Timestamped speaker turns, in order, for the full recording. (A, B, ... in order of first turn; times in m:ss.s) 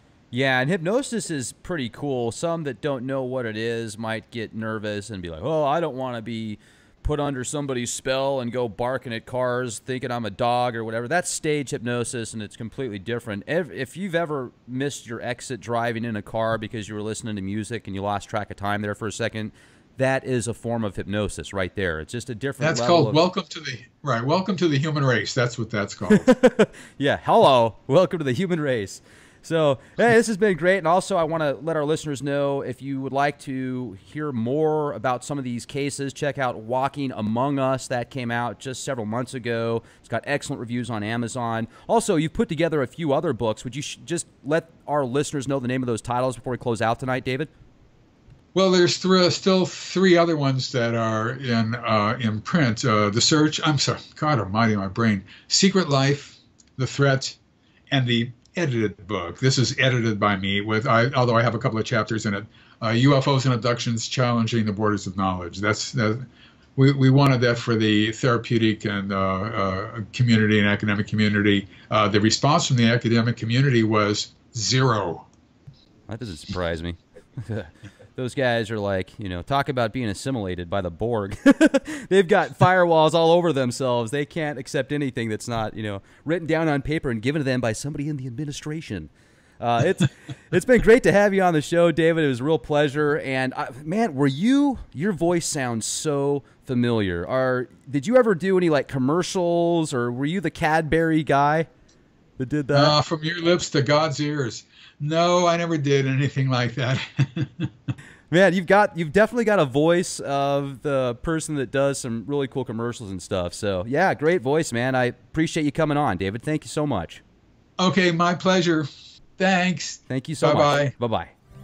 0:00.3-0:23.2 A
0:22.6-0:26.3 B
0:26.1-0:47.5 A
0:48.5-0:57.4 B
0:57.9-1:15.3 B
1:16.1-1:41.7 A
1:42.4-1:43.0 A
1:42.7-1:47.7 B
1:48.3-1:57.2 A
1:57.8-2:00.9 B
2:00.1-2:01.3 A